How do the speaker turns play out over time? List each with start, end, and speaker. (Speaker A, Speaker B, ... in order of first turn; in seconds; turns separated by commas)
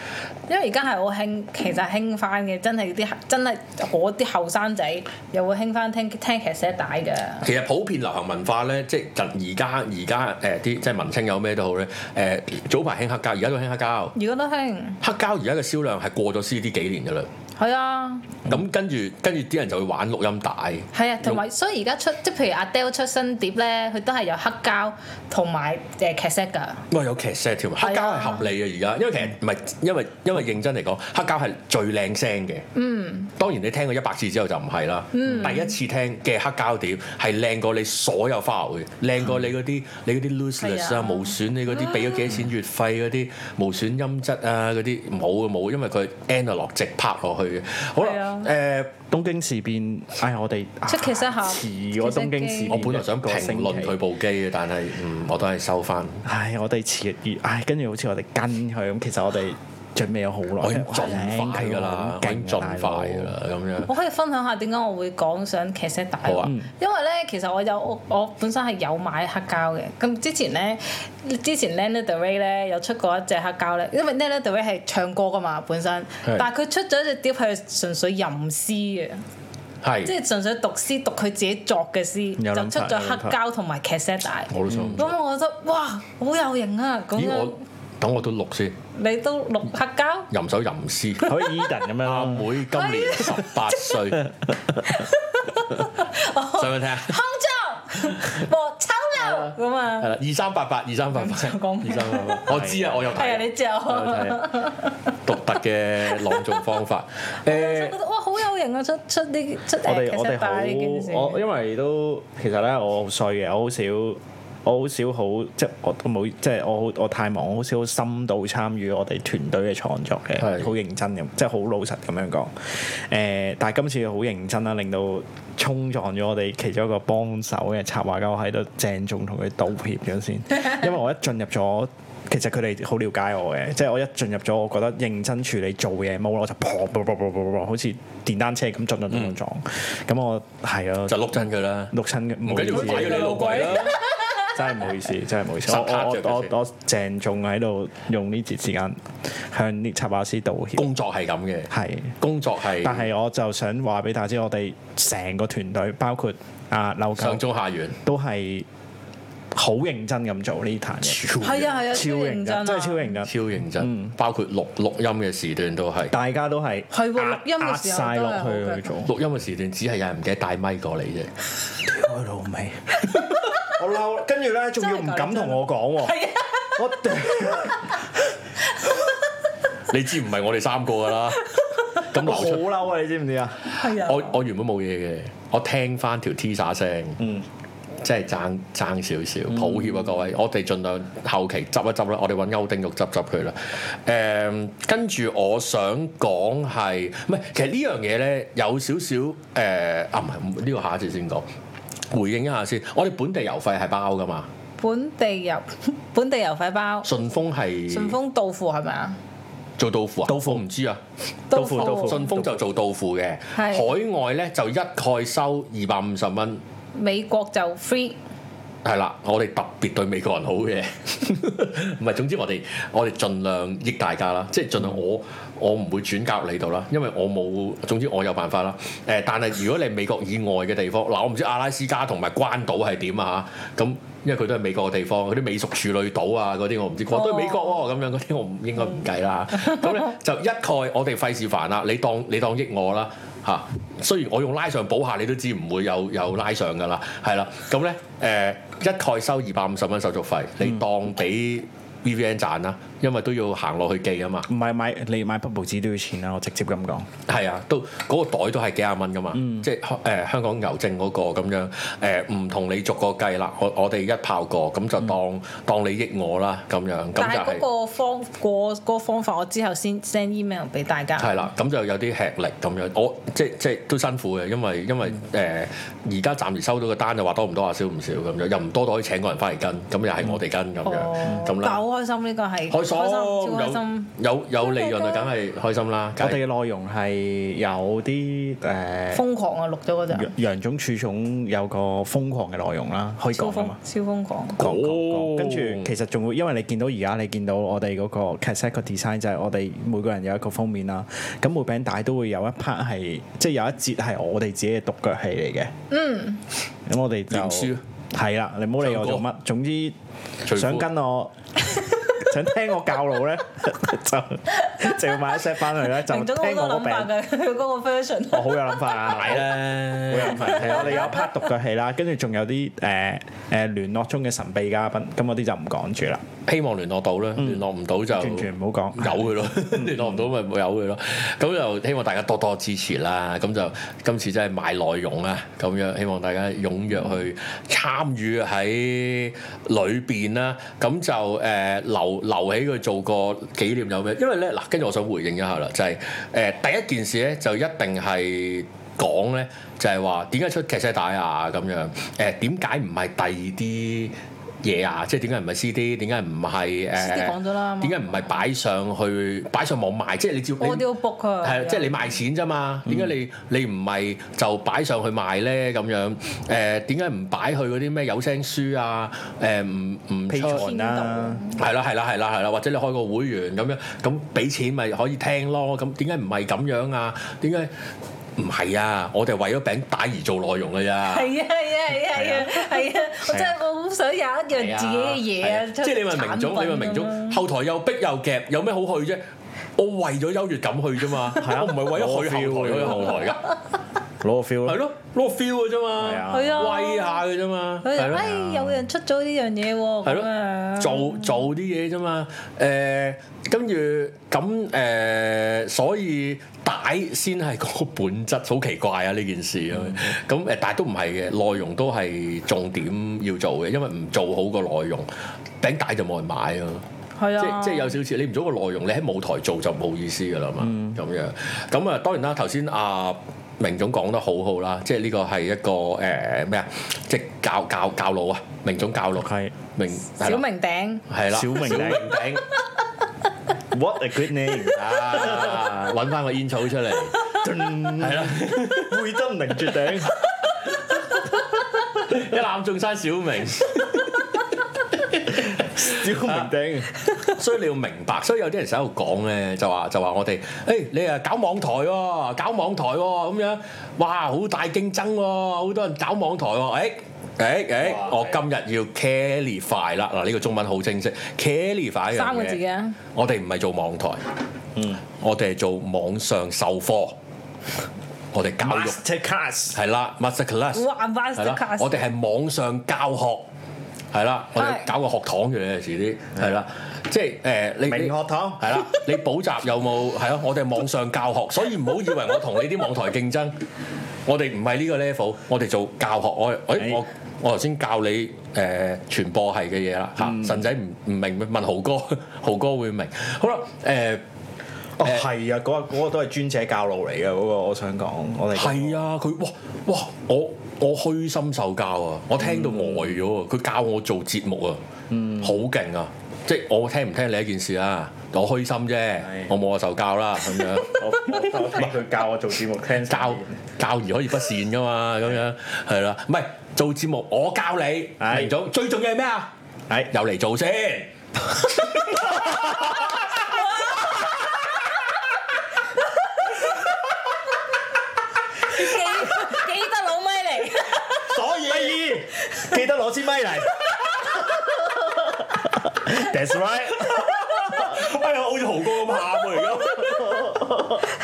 Speaker A: 0.5-7.5, Speaker B: 7.4-14.1, Speaker A: 14.1-15.0, Speaker B: 15.0-17.3, Speaker A: 17.6-18.3, Speaker B: 18.5-21.4, Speaker A: 20.9-26.8, Speaker B: 26.9-32.6, Speaker A: 27.8-28.5, Speaker A: 32.7-33.3, Speaker B: 33.4-48.9, Speaker A: 35.1-35.7, Speaker A: 40.6-42.3, Speaker A: 48.0-48.5, Speaker C: 49.1-54.0, Speaker A: 50.9-52.8, Speaker B: 52.7-56.2, Speaker C: 56.2-63.3, Speaker B: 60.6-63.9, Speaker A: 63.8-79.2, Speaker B: 66.2-66.5, Speaker B: 79.8-80.1, Speaker A: 80.0-87.6, Speaker C: 82.4-83.3, Speaker B: 84.5-85.1, Speaker C: 84.7-85.0, Speaker B: 87.1-88.8, Speaker A: 88.9-90.3, Speaker B: 90.3-91.3, Speaker A: 91.2-91.5, Speaker C: 91.2-92.6, Speaker B: 92.0-94.3, Speaker A: 92.7-94.0, Speaker A: 94.8-100.1, Speaker B: 96.6-97.2, Speaker B: 99.2-104.4, Speaker A: 101.1-105.1, Speaker C: 102.5-103.1, Speaker B: 105.2-108.0, Speaker A: 106.1-106.6, Speaker A: 107.4-111.4, Speaker C: 109.8-141.3, Speaker B: 120.4-120.7, Speaker B: 139.1-139.4, Speaker B: 141.1-144.0, Speaker C: 141.9-143.8, Speaker A: 142.7-144.5, Speaker C: 144.4-150.9, Speaker B: 145.7-146.5, Speaker B: 150.8-153.1, Speaker C: 151.7-152.2, Speaker C: 152.8-157.4, Speaker B: 157.2-158.0, Speaker C: 158.0-158.7, Speaker C: 159.5-164.1, Speaker B: 161.0-161.7, Speaker A: 161.4-163.2, Speaker B: 163.2-166.1, Speaker C: 166.1-169.1, Speaker A: 166.9-168.8, Speaker B: 169.0-171.3, Speaker C: 171.8-176.2, Speaker A: 174.8-177.0, Speaker C: 176.8-178.0, Speaker A: 178.7-179.0, Speaker B: 179.9-182.7, Speaker C: 182.2-183.7, Speaker B: 183.7-187.2, Speaker A: 183.7-184.4, Speaker B: 188.0-201.4, Speaker C: 189.5-190.0, Speaker B: 202.1-204.5, Speaker A: 204.8-207.1, Speaker B: 207.0-208.2, Speaker A: 207.9-209.2, Speaker B: 209.8-211.0, Speaker C: 210.2-210.6, Speaker A: 211.5-212.3, Speaker C: 211.5-212.6, Speaker B: 211.6-216.6, Speaker A: 213.5-213.9, Speaker A: 216.9-218.2, Speaker B: 218.8-254.5, Speaker A: 237.1-237.8, Speaker C: 254.5-257.1, Speaker B: 257.3-267.6, Speaker C: 259.3-259.6, Speaker A: 267.2-271.5, Speaker B: 271.2-281.8, Speaker A: 280.8-285.3, Speaker B: 282.7-286.4, Speaker C: 286.2-289.2, Speaker A: 289.1-290.3, Speaker C: 290.1-293.8, Speaker A: 293.3-294.6, Speaker B: 294.6-295.9, Speaker C: 294.6-305.7, Speaker A: 305.9-306.4, Speaker C: 306.9-309.9, Speaker B: 307.3-307.8, Speaker B: 308.8-309.2, Speaker B: 310.4-310.8, Speaker C: 310.5-311.3, Speaker C: 312.1-317.1, Speaker A: 314.5-319.2, Speaker C: 318.3-326.2, Speaker B: 319.1-321.1, Speaker A: 320.3-321.4, Speaker B: 326.4-360.9, Speaker C: 327.4-330.1, Speaker A: 356.9-358.4, Speaker A: 360.6-362.1, Speaker B: 361.4-370.7, Speaker C: 370.3-371.4, Speaker A: 370.4-371.6, Speaker B: 371.6-377.7, Speaker B: 378.4-381.3, Speaker A: 381.1-387.4, Speaker B: 384.5-389.2, Speaker B: 389.8-393.4, Speaker C: 391.4-393.3, Speaker C: 394.2-394.8, Speaker B: 394.6-398.3, Speaker C: 396.0-396.6, Speaker A: 396.3-397.2, Speaker A: 397.8-401.4, Speaker C: 398.2-398.6, Speaker B: 400.0-415.1, Speaker B: 415.6-416.8, Speaker A: 417.2-417.9, Speaker B: 417.4-430.4, Speaker C: 420.6-421.0, Speaker C: 429.1-429.5, Speaker A: 430.1-431.0, Speaker B: 431.1-432.5, Speaker C: 431.3-432.1, Speaker C: 433.7-435.7, Speaker B: 434.7-439.0, Speaker C: 437.2-440.1, Speaker B: 441.9-444.4, Speaker C: 445.3-447.0, Speaker B: 445.8-446.5, Speaker B: 447.1-462.6, Speaker A: 462.1-463.0, Speaker B: 463.1-464.2, Speaker B: 465.1-467.1, Speaker B: 468.3-469.0, Speaker C: 468.6-469.8, Speaker B: 469.7-473.5, Speaker A: 470.7-472.0, Speaker B: 474.1-483.5, Speaker A: 474.6-474.9, Speaker C: 477.9-479.0, Speaker B: 484.2-494.2, Speaker C: 490.2-490.6, Speaker C: 495.0-499.0, Speaker B: 498.5-504.8, Speaker C: 502.4-503.2, Speaker C: 505.1-505.5, Speaker B: 505.4-511.9, Speaker C: 510.8-513.6, Speaker B: 513.1-519.5, Speaker C: 518.2-518.5, Speaker B: 520.1-521.1, Speaker C: 521.9-523.4, Speaker B: 521.9-523.2, Speaker A: 523.4-524.2, Speaker A: 526.2-526.7, Speaker A: 528.5-531.3, Speaker C: 531.1-537.9, Speaker B: 531.3-532.0, Speaker B: 537.2-540.6, Speaker C: 540.0-541.1